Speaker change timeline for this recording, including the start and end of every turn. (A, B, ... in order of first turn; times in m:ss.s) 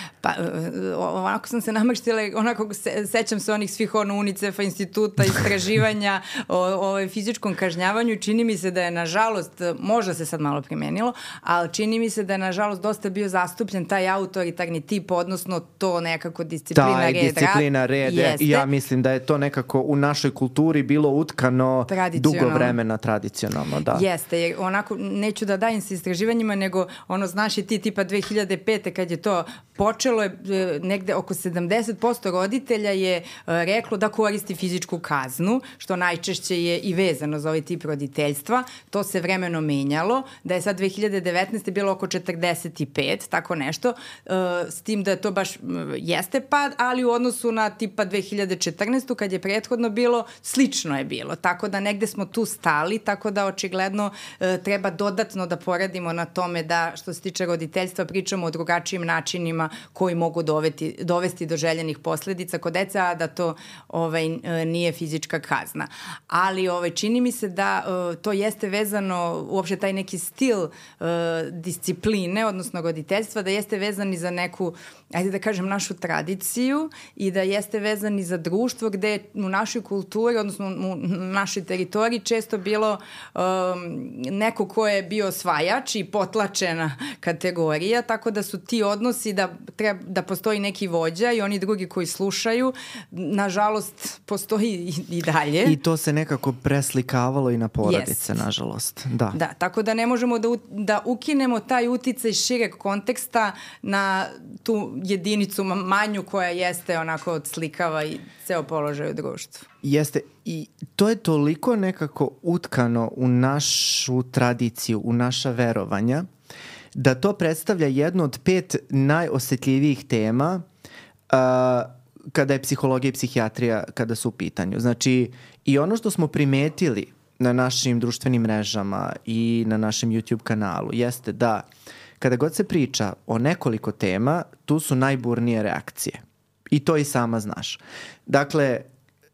0:00.2-0:18.6 A
0:16.7-0:24.0 B
0:21.9-0:22.8 A
0:23.9-1:35.8 A
1:35.6-1:39.4 B
1:37.8-1:38.2 A
1:39.3-1:49.7 A
1:49.8-1:56.3 B
1:57.0-2:00.6 B
2:01.3-2:11.6 B
2:12.2-2:16.2 B
2:16.7-2:18.8 B